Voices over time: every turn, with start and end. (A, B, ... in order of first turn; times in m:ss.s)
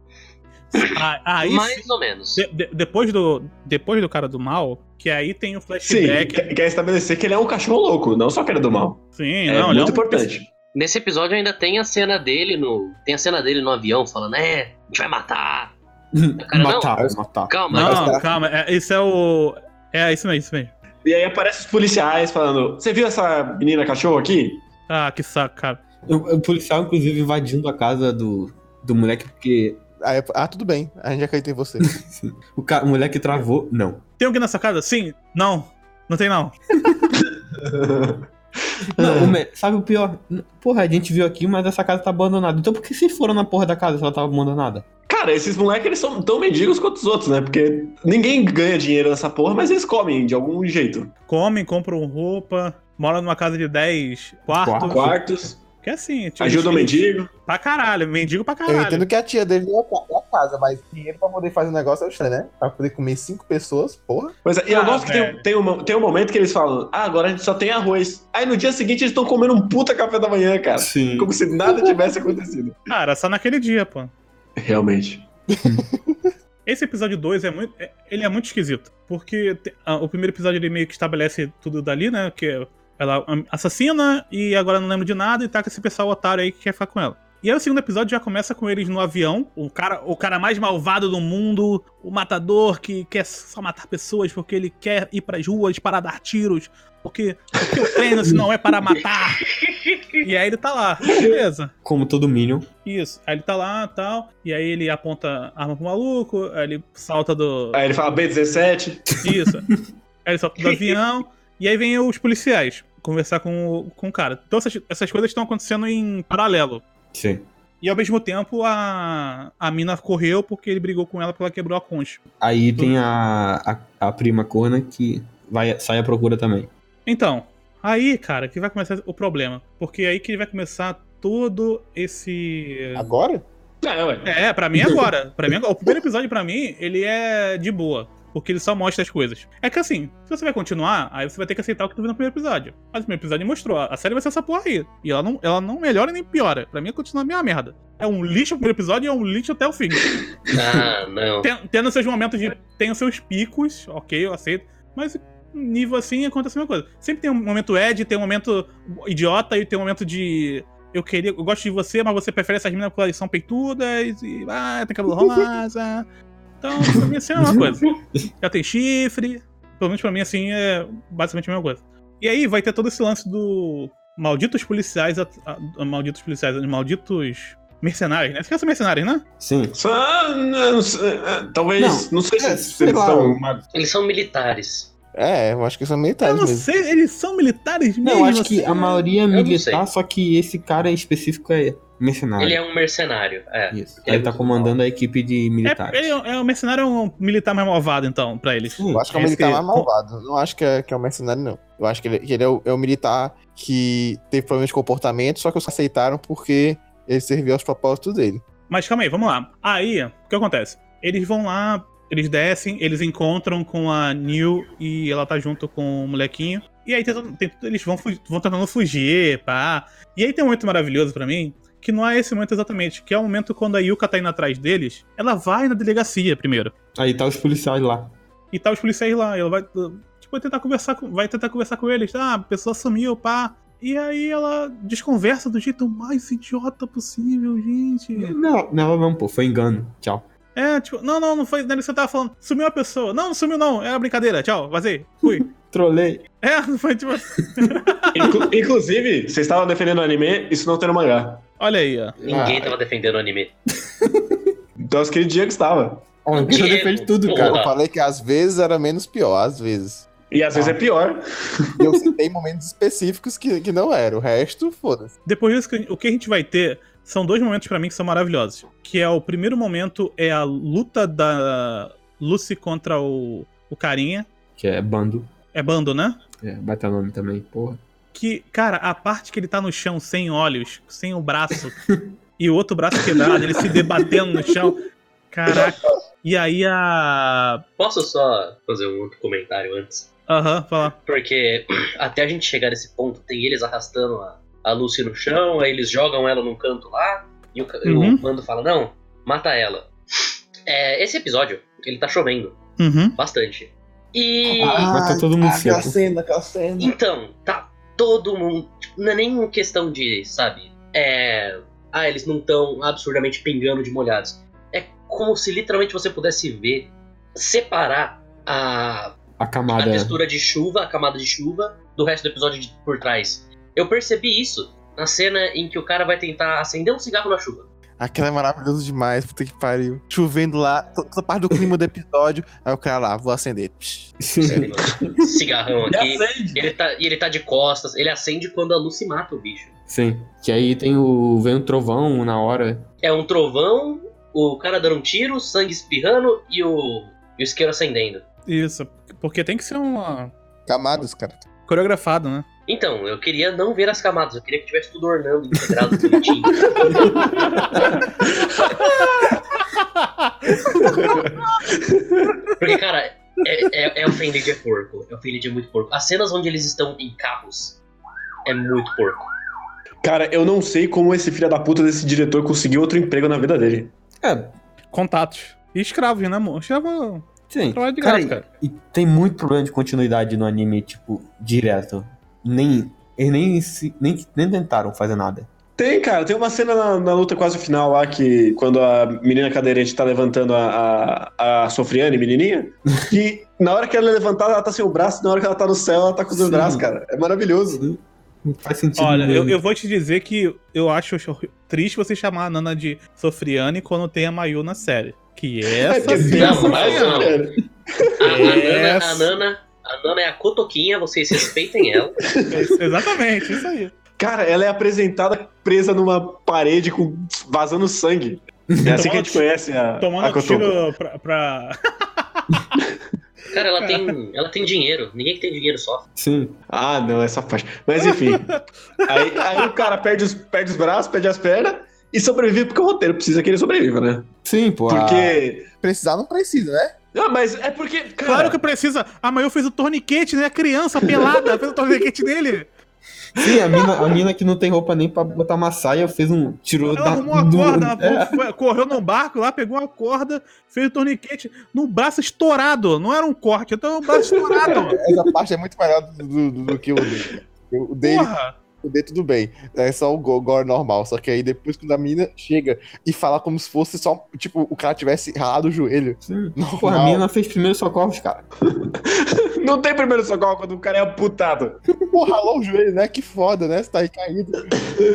0:00.7-0:06.5 A
0:00.8-0:02.4 B
0:05.8-0:10.5 C
0:09.1-0:10.2 A
0:10.7-0:15.7 B
0:16.1-0:18.2 D
0:16.4-0:18.2 B
0:17.7-0:20.7 A
0:21.0-0:24.6 C
0:24.9-0:25.8 A
0:26.1-0:29.8 D
0:30.0-0:31.9 E
0:31.8-0:34.0 D
0:34.2-0:36.6 A
0:37.2-0:38.2 C
0:38.7-0:39.3 C
0:39.0-0:44.8 D
0:45.1-0:51.1 C
0:51.3-0:55.1 A
0:54.5-0:55.5 D
0:54.9-0:55.6 C
0:55.8-0:59.0 A
0:56.4-0:57.3 C
0:58.7-1:04.3 E
1:04.4-1:12.9 C
1:04.7-1:05.4 A
1:10.8-1:11.3 D
1:12.9-1:14.1 A
1:14.6-1:15.2 C
1:15.6-1:16.2 E
1:16.6-1:39.4 A
1:39.5-1:40.2 B
1:40.2-1:41.7 A
1:41.1-1:41.4 C
1:41.8-1:42.7 D
1:42.8-1:47.8 A
1:47.7-1:49.2 C
1:49.2-1:49.7 A
1:50.2-1:56.8 A
1:57.1-1:57.4 D
1:57.8-2:02.2 A
2:02.4-2:06.7 D
2:07.0-2:13.1 A
2:12.9-2:13.4 E
2:13.8-2:14.3 C
2:14.2-2:30.1 A
2:30.5-2:31.5 B
2:31.4-2:46.0 A
2:46.6-2:59.2 A
2:47.4-2:47.6 D
2:59.4-2:59.7 D
2:59.7-3:03.4 C
3:01.8-3:03.6 D
3:03.7-3:04.9 B
3:05.1-3:06.7 E
3:06.2-3:09.0 A
3:08.0-3:12.6 D
3:09.3-3:09.8 B
3:12.4-3:14.7 B
3:13.7-3:16.2 D
3:15.6-3:19.9 A
3:18.8-3:19.0 D
3:18.9-3:28.4 E
3:28.7-3:46.7 A
3:46.9-3:48.1 D
3:48.5-3:58.4 A
3:58.1-4:00.2 D
4:00.5-4:05.4 A
4:05.2-4:06.2 D
4:06.4-4:08.3 A
4:08.1-4:11.4 C
4:11.6-4:12.2 A
4:12.2-4:12.7 D
4:12.2-4:13.5 B
4:12.3-4:12.6 E
4:14.0-4:14.4 D
4:14.9-4:16.1 C
4:16.2-4:17.6 D
4:16.3-4:17.7 B
4:17.3-4:20.8 E
4:20.3-4:21.7 C
4:21.8-4:25.1 E
4:25.2-4:34.3 A
4:34.6-4:35.3 D
4:35.5-4:36.2 A
4:36.4-4:37.8 D
4:38.1-4:41.8 A
4:42.4-4:47.6 A
4:47.8-4:50.1 B
4:50.3-4:51.0 A
4:51.0-5:02.6 B
4:57.8-4:58.2 A
5:02.8-5:03.2 A
5:03.1-5:04.9 B
5:04.4-5:07.0 E
5:04.6-5:06.0 D
5:06.8-5:19.2 B
5:19.4-5:20.2 D
5:19.7-5:27.7 B
5:28.0-5:34.2 E
5:34.2-5:35.0 D
5:34.4-5:39.7 B
5:35.9-5:36.7 C
5:39.9-5:42.8 D
5:43.0-5:48.2 B
5:48.5-5:50.3 A
5:50.7-5:51.4 E
5:51.7-5:52.4 A
5:52.7-5:57.9 B
5:57.7-5:58.2 C
5:58.8-6:01.0 A
6:01.1-6:02.4 C
6:02.6-6:07.8 B
6:08.4-6:09.3 B
6:10.0-6:13.9 C
6:14.2-6:14.5 D
6:14.9-6:18.4 A
6:17.5-6:25.5 D
6:25.8-6:37.9 C
6:36.3-6:36.8 D
6:37.7-6:39.6 D
6:39.0-6:47.3 A
6:45.8-6:48.5 C
6:46.1-6:46.7 D
6:46.3-6:47.4 B
6:48.2-6:52.2 B
6:48.2-6:49.3 A
6:52.5-6:53.9 A
6:54.2-7:00.8 C
6:58.9-6:59.4 A
7:00.0-7:02.7 A
7:03.5-7:06.0 B
7:03.8-7:04.1 A
7:06.2-7:06.6 D
7:06.7-7:14.3 C
7:08.0-7:09.6 A
7:14.4-7:15.4 D
7:14.9-7:15.6 C
7:15.8-7:16.9 E
7:17.1-7:18.6 C
7:18.2-7:22.7 A
7:23.4-7:28.4 D
7:23.4-7:23.9 C
7:26.9-7:35.0 A
7:34.9-7:47.2 E
7:38.0-7:38.5 A
7:46.2-7:48.5 D
7:49.0-7:51.8 C
7:52.1-7:54.8 E